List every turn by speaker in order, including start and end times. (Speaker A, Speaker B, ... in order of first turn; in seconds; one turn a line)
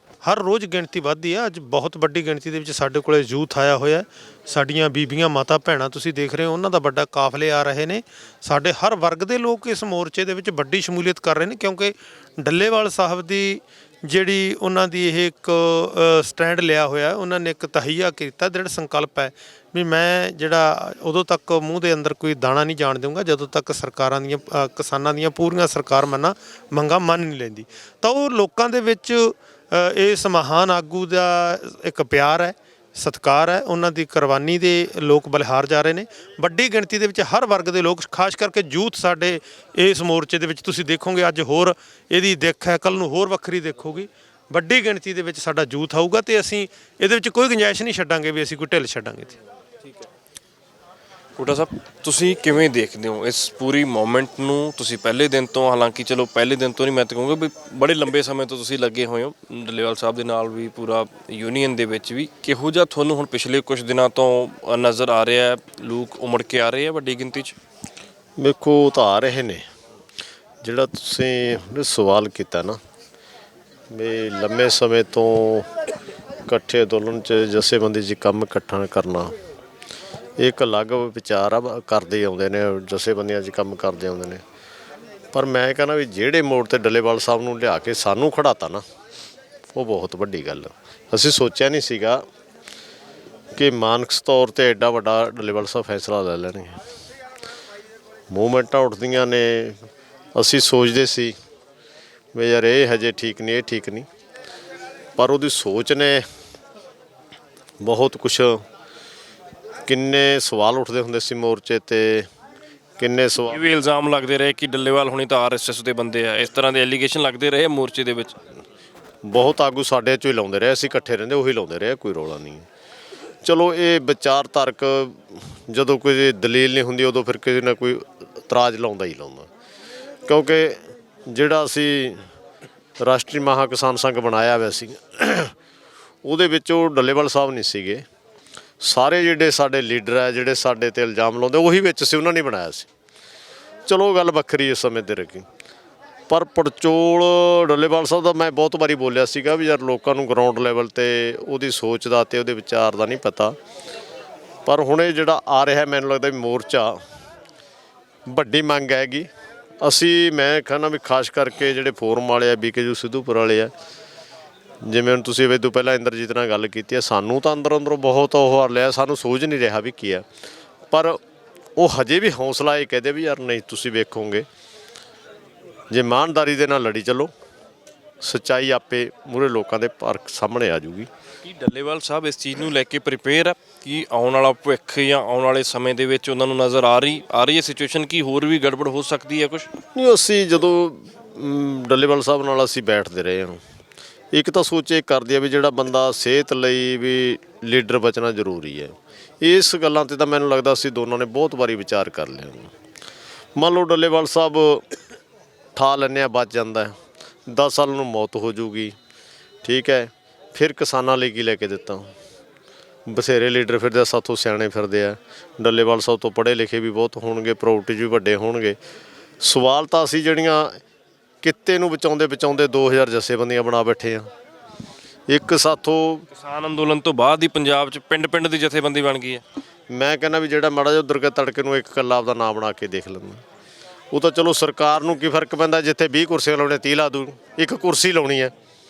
Speaker A: 0.2-49.4
Speaker B: 51.4-67.5
Speaker C: 68.4-69.6
Speaker C: 70.6-72.8
Speaker C: 73.9-75.7
Speaker C: 76.5-79.3
Speaker C: 80.4-84.4
Speaker C: 85.3-88.8
Speaker C: 89.7-92.2
Speaker C: 93.5-96.8
Speaker C: 98.3-99.8
Speaker C: 100.3-101.3
Speaker C: 102.3-104.1
Speaker C: 105.2-106.2
Speaker C: 107.8-108.6
Speaker C: 109.9-112.3
Speaker C: 113.0-113.6
Speaker B: 113.5-118.4
Speaker C: 119.2-122.6
Speaker C: 123.4-129.5
Speaker C: 130.2-132.2
Speaker C: 133.0-135.5
Speaker C: 136.2-138.0
Speaker C: 138.8-142.9
Speaker C: 143.9-145.4
Speaker C: 146.3-153.6
Speaker C: 154.7-157.0
Speaker C: 158.3-159.3
Speaker C: 159.8-163.7
Speaker C: 164.8-170.2
Speaker C: 170.9-171.2
Speaker C: 171.8-174.4
Speaker C: 175.9-177.3
Speaker C: 178.2-181.1
Speaker B: 181.4-189.7
Speaker C: 189.9-193.6
Speaker C: 194.3-202.7
Speaker C: 203.6-204.8
Speaker C: 205.8-206.9
Speaker C: 207.4-208.9
Speaker C: 209.6-212.1
Speaker C: 213.1-218.8
Speaker C: 219.4-220.8
Speaker C: 221.4-224.3
Speaker C: 225.3-226.3
Speaker B: 226.3-229.4
Speaker C: 229.9-233.4
Speaker C: 234.1-238.5